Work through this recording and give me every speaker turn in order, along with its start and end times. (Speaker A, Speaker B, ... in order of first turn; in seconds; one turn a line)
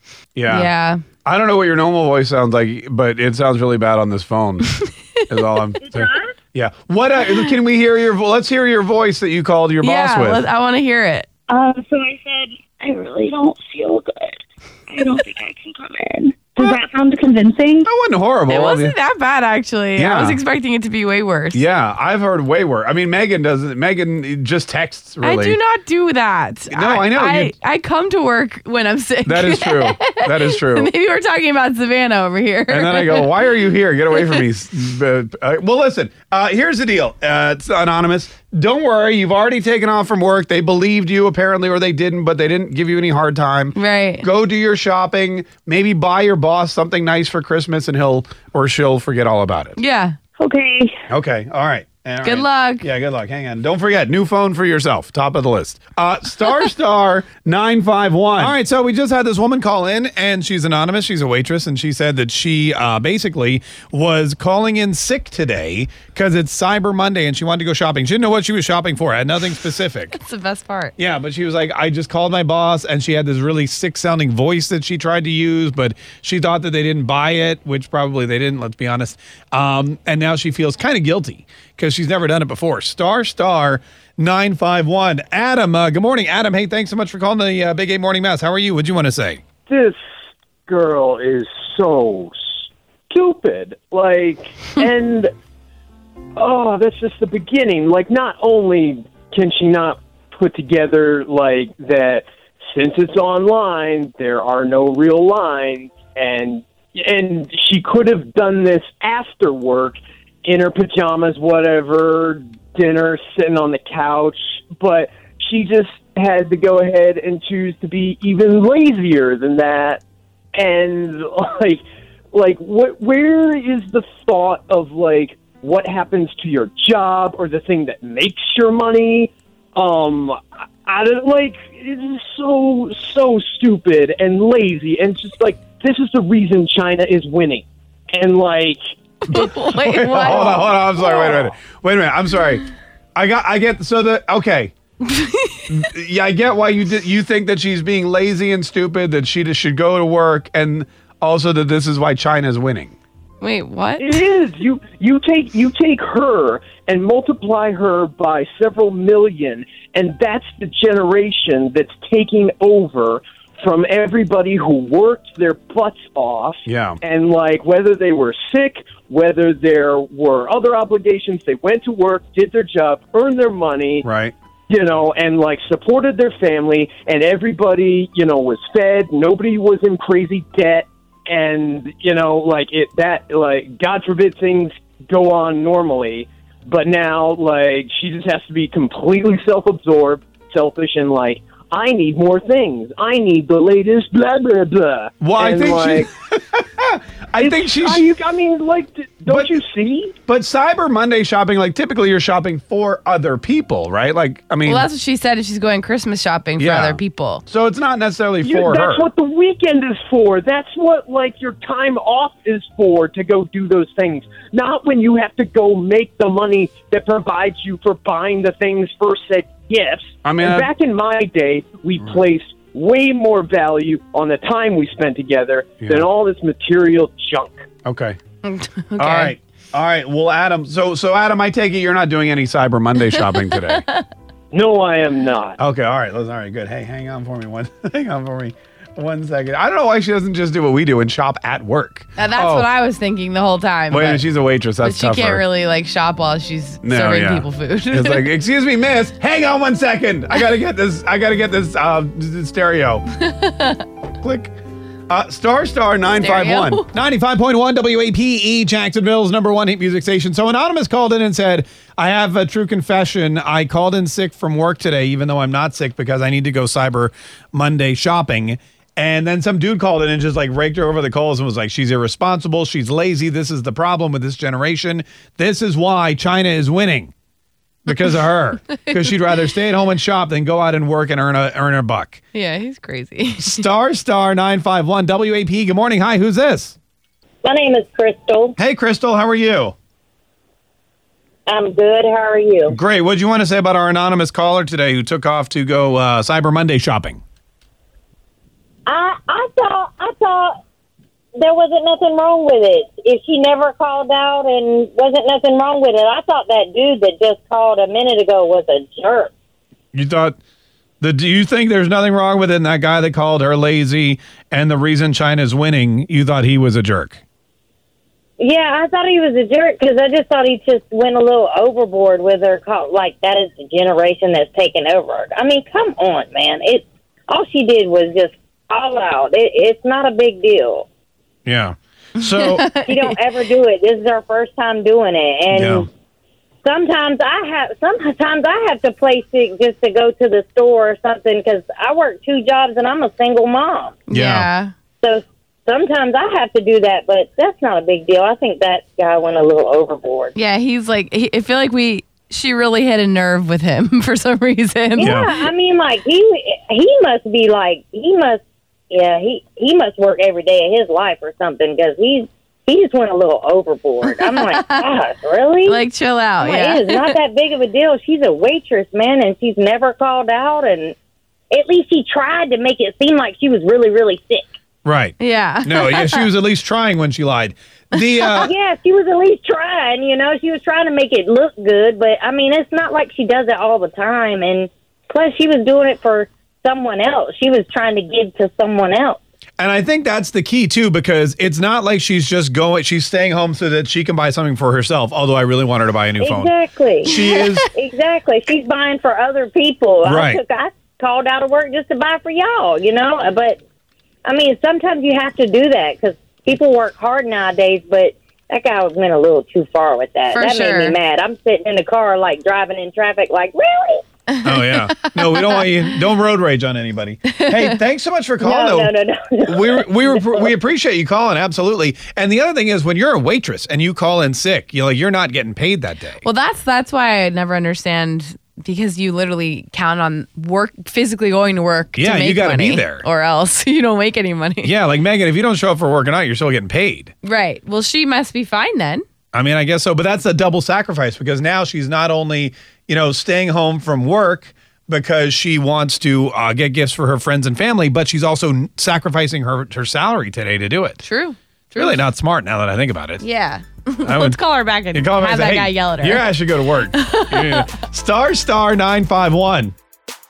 Speaker A: 0.4-0.7
Speaker B: 0.5-1.0
Speaker A: 1.2-4.7
Speaker A: 5.3-10.4
Speaker C: 5.8-6.3
Speaker B: 9.8-11.3
Speaker C: 11.5-17.9
Speaker A: 17.8-19.0
Speaker B: 18.5-21.6
Speaker A: 20.0-20.4
Speaker A: 21.5-25.6
Speaker B: 25.2-33.5
Speaker A: 26.7-27.5
Speaker A: 29.3-30.9
Speaker A: 32.7-49.8
Speaker B: 34.1-34.4
Speaker B: 43.7-44.3
Speaker B: 49.8-50.2
Speaker C: 50.4-50.9
Speaker A: 51.1-70.2
Speaker B: 52.2-52.9
Speaker B: 70.1-71.0
Speaker A: 71.0-89.4
Speaker D: 89.7-90.0
Speaker D: 90.7-95.3
Speaker D: 96.4-120.0
Speaker D: 120.5-121.8
Speaker D: 122.3-138.8
Speaker B: 139.3-140.8
Speaker A: 139.3-144.7
Speaker D: 140.1-141.5
Speaker B: 145.2-145.6
Speaker A: 145.7-152.9
Speaker B: 153.4-154.2
Speaker D: 154.0-174.1
Speaker A: 166.7-167.0
Speaker A: 174.0-174.3
Speaker D: 174.7-196.1
Speaker A: 195.2-198.1
Speaker D: 197.4-200.2
Speaker A: 199.3-199.5
Speaker A: 200.2-204.9
Speaker B: 204.7-207.4
Speaker A: 206.6-209.1
Speaker D: 208.4-227.7
Speaker A: 220.2-220.7
Speaker A: 227.8-228.2
Speaker B: 228.4-229.3
Speaker A: 229.0-233.8
Speaker B: 233.2-234.1
Speaker D: 234.5-235.6
Speaker A: 235.6-242.7
Speaker B: 242.2-244.2
Speaker A: 243.9-245.4
Speaker B: 244.8-248.3
Speaker A: 246.8-253.1
Speaker B: 253.2-253.8
Speaker A: 254.2-254.5
Speaker A: 255.1-277.1
Speaker B: 256.1-256.9
Speaker A: 277.9-282.2
Speaker B: 282.3-283.6
Speaker A: 283.4-286.8
Speaker E: 287.4-288.6
Speaker A: 288.6-289.8
Speaker E: 291.5-292.8
Speaker A: 292.7-297.2
Speaker E: 298.9-300.6
Speaker E: 301.4-309.3
Speaker A: 309.9-310.4
Speaker A: 311.0-317.2
Speaker E: 318.4-330.9
Speaker A: 331.4-332.7
Speaker B: 332.2-333.2
Speaker E: 332.8-335.9
Speaker A: 335.5-335.9
Speaker E: 336.6-344.0
Speaker B: 344.1-344.7
Speaker A: 344.1-344.5
Speaker E: 345.0-350.3
Speaker B: 350.4-355.3
Speaker E: 355.0-365.8
Speaker A: 355.0-355.3
Speaker B: 364.1-364.9
Speaker B: 365.6-367.2
Speaker E: 366.4-370.9
Speaker E: 371.5-374.4
Speaker A: 374.8-378.5
Speaker B: 375.2-376.3
Speaker E: 378.4-389.2
Speaker A: 389.6-396.5
Speaker E: 396.2-403.6
Speaker A: 397.0-397.7
Speaker A: 400.1-400.4
Speaker E: 404.2-414.0
Speaker B: 410.3-411.0
Speaker A: 414.4-418.9
Speaker B: 414.6-415.5
Speaker B: 417.3-417.7
Speaker E: 418.4-420.5
Speaker A: 419.4-426.2
Speaker B: 426.2-434.7
Speaker A: 432.0-433.1
Speaker A: 434.6-437.1
Speaker B: 437.2-439.1
Speaker A: 439.3-451.0
Speaker B: 451.0-452.0
Speaker A: 451.8-453.2
Speaker B: 453.2-456.4
Speaker A: 454.0-454.4
Speaker A: 454.9-459.7
Speaker B: 456.9-457.7